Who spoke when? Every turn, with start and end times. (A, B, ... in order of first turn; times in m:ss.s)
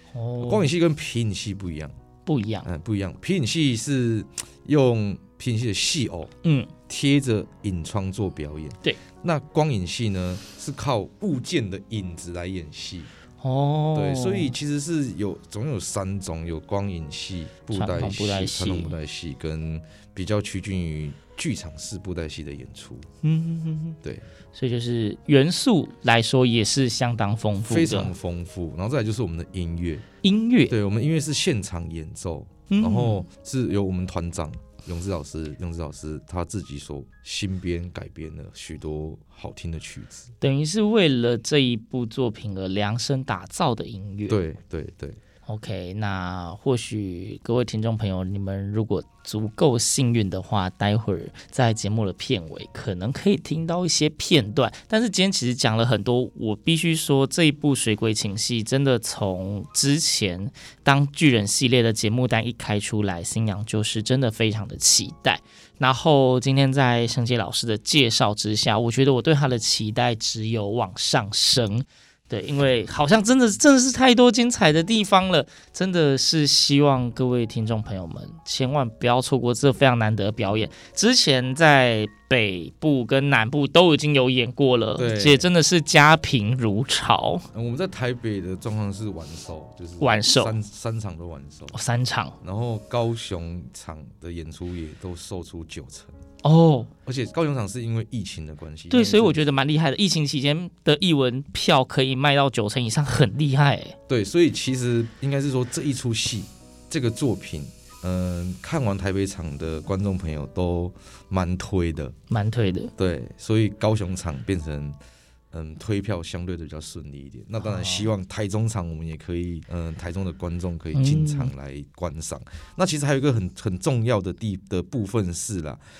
0:00.1-0:00.7 A
0:00.4-0:01.9 B
0:02.3-0:02.7 A
0:02.6-0:06.3 B
0:06.4-0:06.7 A
0:06.9-0:13.1 B
0:13.4-0:14.6 A
0:13.9-0:23.1 B
0:17.7-0:19.0 A
0:23.2-0:24.0 A
0:24.5-0:28.1 A
0:27.6-0:30.0 B
0:30.2-0:30.8 A
0:30.7-0:40.3 B
0:32.7-0:33.2 A
0:40.4-0:44.4 A
0:44.3-0:45.2 B
0:45.5-1:27.5 A
1:25.0-1:25.5 B
1:27.5-1:31.8 B
1:30.0-1:30.6 A
1:31.7-1:32.4 A
1:32.4-1:36.1 B
1:36.4-1:36.9 A
1:37.0-1:39.4 B
1:38.9-1:44.0 A
1:44.1-1:52.2 B
1:52.3-1:52.9 A
1:53.0-1:55.0 B
1:55.5-2:05.8 B
1:57.6-1:58.1 A
2:00.9-2:01.5 A